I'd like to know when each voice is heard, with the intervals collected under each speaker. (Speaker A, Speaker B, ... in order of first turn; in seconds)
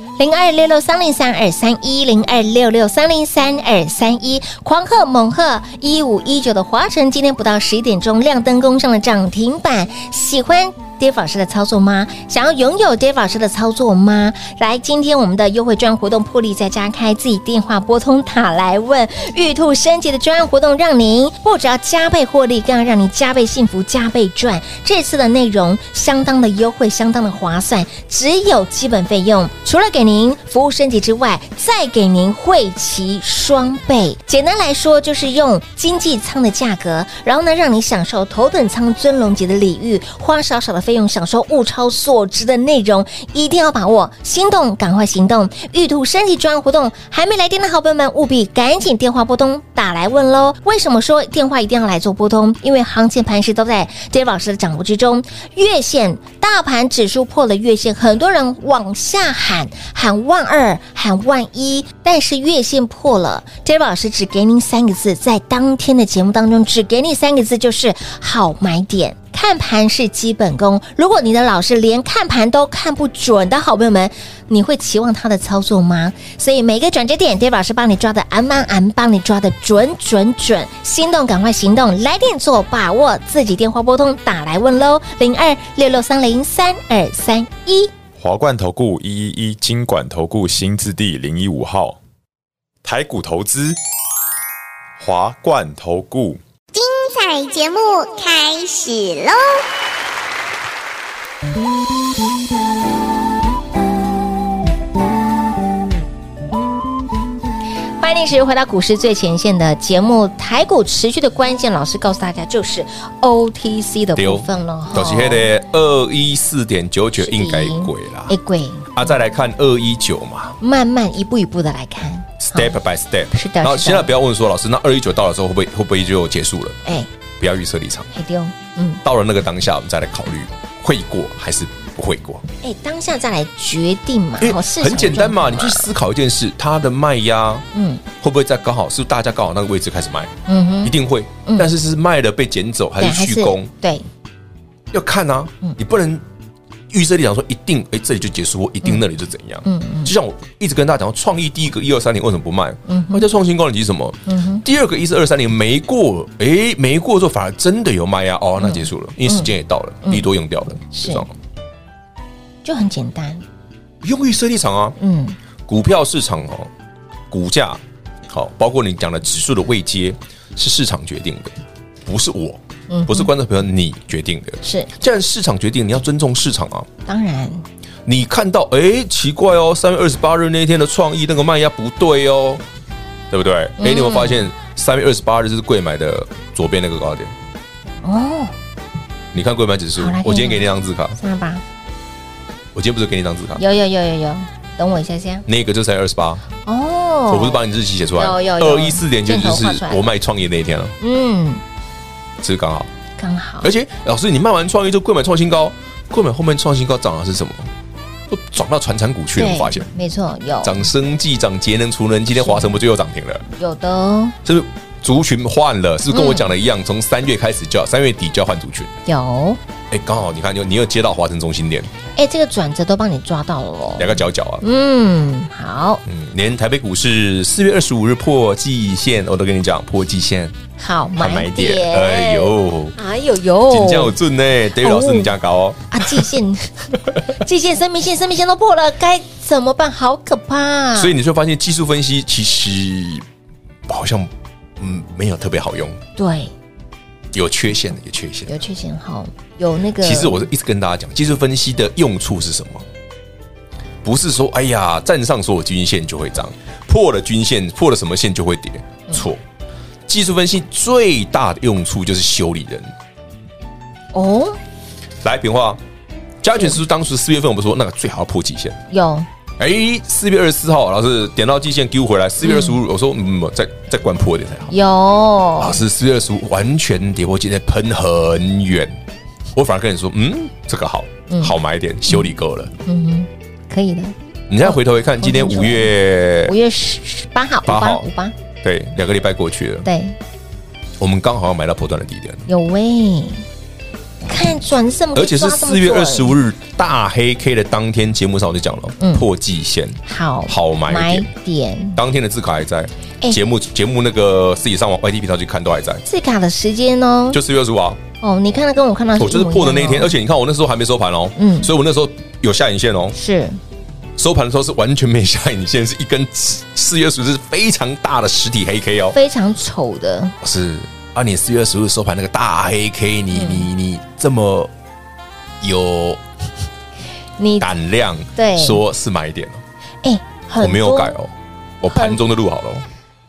Speaker A: 0.2-87.9, 108.0-115.5, 117.2-119.0, 120.6-122.8, 123.3-124.1, 128.1-129.0, 132.6-135.9, 137.7-138.0, 140.5-141.7, 143.0-144.1, 149.6-150.1, 152.9-153.3, 154.3-154.6, 158.6-159.5, 160.9-161.2, 162.6-163.4, 165.0-165.3, 172.9-173.3, 174.6-174.9, 177.1-177.6, 183.8-184.4, 188.0-188.5, 190.0-191.6, 193.6-195.4, 196.7-197.6, 198.2-200.1, 201.0-201.6, 203.2-203.7, 209.3-210.8, 212.4-212.7, 213.5-214.3, 216.1-216.5, 219.1-219.6, 222.2-226.0, 230.8-234.2, 234.8-235.3, 235.9-241.1, 246.2-246.5, 248.5-250.5, 264.1-264.6, 268.9-269.3, 272.4-272.8, 274.7-275.8, 281.3-281.5, 282.8-285.9, 286.4-288.3, 289.8-290.1, 292.5-293.4, 294.2-296.4, 299.0-299.2, 300.0-302.0, 306.1-307.4, 308.2-310.1, 311.4-311.7, 313.1-313.6, 319.1-320.3, 323.3-323.7, 327.4-327.7, 328.4-328.8, 330.0-331.1, 331.9-332.2
Speaker B: 88.2-92.0, 92.8-93.8, 95.0-96.4
Speaker C: 96.7-99.6
Speaker D: 114.2-118.3, 118.9-120.6, 122.4-126.8, 127.4-128.1, 129.0-132.4, 134.4-137.7, 138.2-140.3, 140.8-143.7, 144.9-146.2, 146.9-161.3, 164.0-165.0, 165.7-166.7, 167.3-176.9, 178.1-182.6, 183.3-187.3, 189.3-191.2, 192.7-193.6, 195.4-196.4, 197.3-200.9, 202.4-202.9, 203.6-207.7, 208.3-209.9, 210.6-213.4, 214.4-218.9, 219.9-221.9, 224.0-224.6, 226.0-230.5, 231.1-233.0, 233.7-236.3, 240.9-243.2, 243.9-246.0, 247.3-248.6, 250.0-252.8, 254.0-259.4, 260.1-262.9, 265.2-265.8, 266.4-268.8, 269.6-274.7, 275.6-279.0, 279.5-282.7, 284.5-286.5, 287.6-288.0, 288.6-289.9, 291.0-292.4, 295.1-301.3, 301.9-306.0, 307.3-308.0, 309.2-313.1, 314.2-319.1, 320.4-324.7, 325.6-326.2, 327.6-329.6, 330.6-332.8